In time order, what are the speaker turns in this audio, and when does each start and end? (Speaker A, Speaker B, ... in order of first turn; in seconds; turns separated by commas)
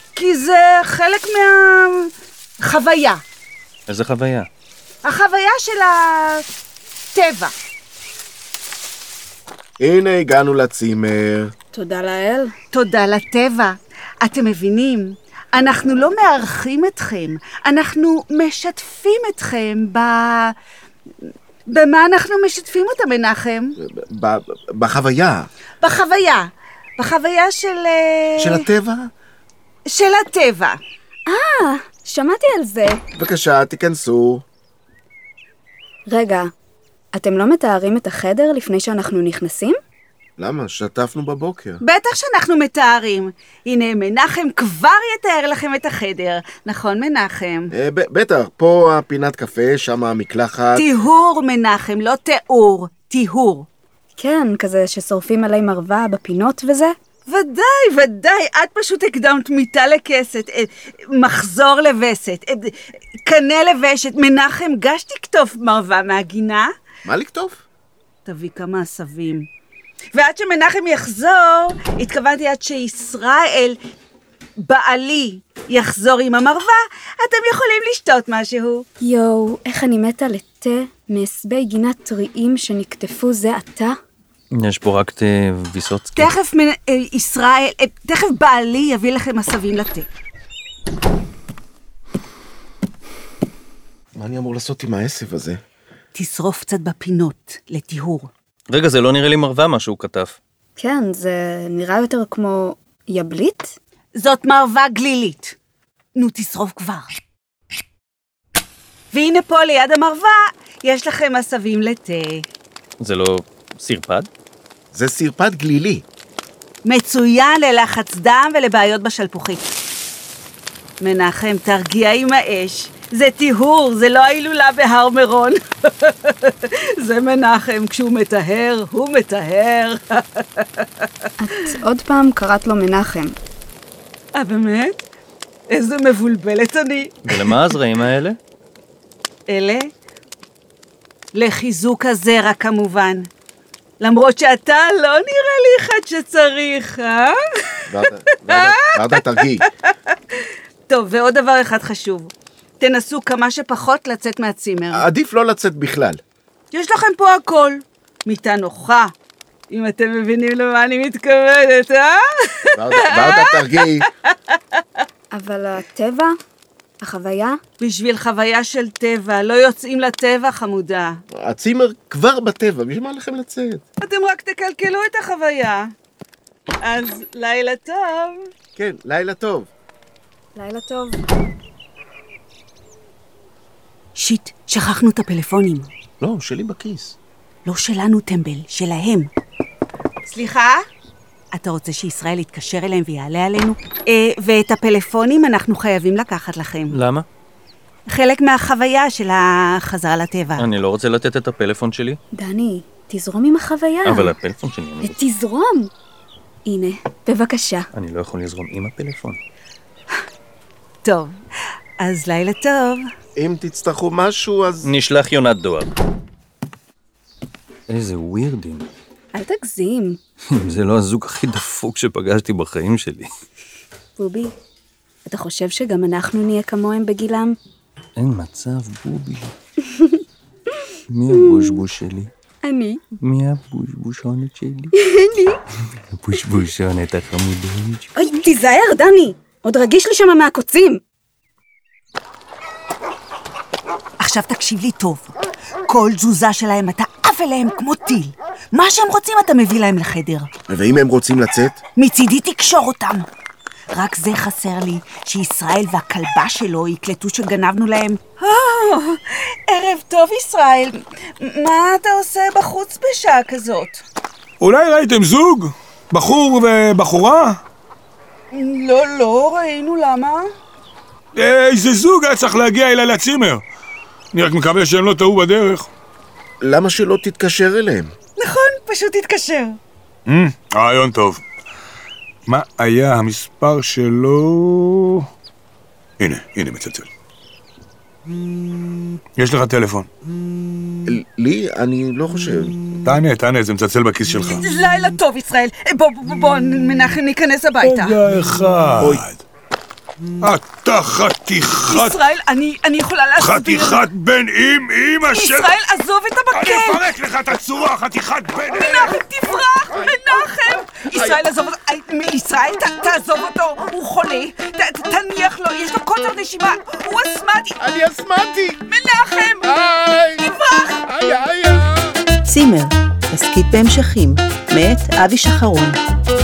Speaker A: 0.1-2.1, Speaker A: 2.6-3.2, Speaker B: 3.9-4.5, Speaker A: 5.0-6.5, Speaker A: 7.2-7.5, Speaker C: 9.8-11.5, Speaker D: 11.7-12.5, Speaker A: 12.7-20.6, Speaker A: 21.7-23.8, Speaker C: 23.8-25.5, Speaker A: 25.8-28.7, Speaker C: 28.4-29.1, Speaker A: 29.9-30.8, Speaker D: 31.3-33.0, Speaker C: 33.1-34.4, Speaker D: 36.1-36.5, Speaker D: 37.1-39.8, Speaker C: 40.4-41.8, Speaker A: 41.8-47.7, Speaker C: 47.7-50.9, Speaker A: 50.8-53.7, Speaker D: 54.2-57.0, Speaker A: 57.3-66.7, Speaker C: 67.0-67.6, Speaker A: 68.2-69.5, Speaker A: 70.1-73.8, Speaker A: 74.6-78.9, Speaker D: 79.0-83.9, Speaker B: 84.6-86.3, Speaker A: 86.2-90.1, Speaker C: 94.2-95.6, Speaker A: 96.1-98.3, Speaker B: 98.7-100.4, Speaker D: 100.8-103.8, Speaker A: 104.2-105.6, Speaker A: 106.2-107.1, Speaker A: 109.1-112.5, Speaker B: 113.0-114.3, Speaker C: 114.9-116.0, Speaker A: 116.8-119.7, Speaker A: 121.0-131.1, Speaker D: 131.4-133.4, Speaker A: 134.3-135.0, Speaker A: 135.7-137.5, Speaker B: 137.3-138.4, Speaker A: 139.5-139.9, Speaker A: 141.3-143.3, Speaker A: 144.0-147.9, Speaker C: 147.9-149.7, Speaker A: 148.5-155.1, Speaker C: 154.9-156.2, Speaker A: 156.7-159.1, Speaker A: 159.7-165.0, Speaker C: 162.8-164.1, Speaker D: 165.3-166.3, Speaker D: 167.0-167.6, Speaker A: 167.8-171.2, Speaker C: 171.3-173.8, Speaker A: 174.0-175.9, Speaker A: 176.8-178.5, Speaker C: 178.8-179.7, Speaker D: 180.6-181.2, Speaker A: 184.2-185.9, Speaker C: 186.2-187.2, Speaker A: 187.7-189.3, Speaker A: 190.2-190.8, Speaker A: 191.5-197.0, Speaker B: 196.9-197.2, Speaker A: 198.1-200.7, Speaker B: 200.6-202.2, Speaker D: 202.3-204.3, Speaker B: 204.1-205.2, Speaker D: 205.0-205.9, Speaker D: 206.7-207.9, Speaker B: 207.9-209.4, Speaker A: 211.0-211.4, Speaker A: 212.0-213.1, Speaker C: 213.4-214.9, Speaker B: 214.8-215.9, Speaker B: 217.9-218.9, Speaker D: 219.3-220.2, Speaker B: 220.5-223.3, Speaker D: 224.2-224.5, Speaker D: 225.3-227.6, Speaker B: 228.2-229.5, Speaker D: 229.8-230.2, Speaker B: 231.1-232.3, Speaker D: 231.3-231.8, Speaker D: 232.6-233.0, Speaker B: 233.2-234.9, Speaker D: 235.0-235.6, Speaker B: 236.2-238.2, Speaker D: 238.2-241.0, Speaker A: 244.2-245.3, Speaker A: 245.9-250.5, Speaker C: 250.7-251.8, Speaker A: 251.9-253.3, Speaker A: 253.9-264.0, Speaker E: 264.6-267.6, Speaker A: 268.5-270.5, Speaker E: 271.4-273.6, Speaker E: 274.3-275.9, Speaker C: 276.6-278.1, Speaker A: 278.4-279.8, Speaker E: 280.3-281.4, Speaker E: 282.5-285.2, Speaker E: 286.2-287.1, Speaker E: 289.4-290.1, Speaker C: 291.1-292.8, Speaker E: 293.0-294.7, Speaker A: 294.5-298.2, Speaker E: 297.8-299.4, Speaker E: 300.4-302.2, Speaker A: 301.9-304.0, Speaker E: 303.4-305.8, Speaker A: 305.3-307.1, Speaker E: 306.5-309.2, Speaker A: 308.7-317.8, Speaker C: 311.1-311.4, Speaker C: 317.8-318.8, Speaker A: 318.9-319.8, Speaker C: 319.7-320.4, Speaker A: 320.4-321.0, Speaker C: 321.1-322.1, Speaker F: 322.4-326.0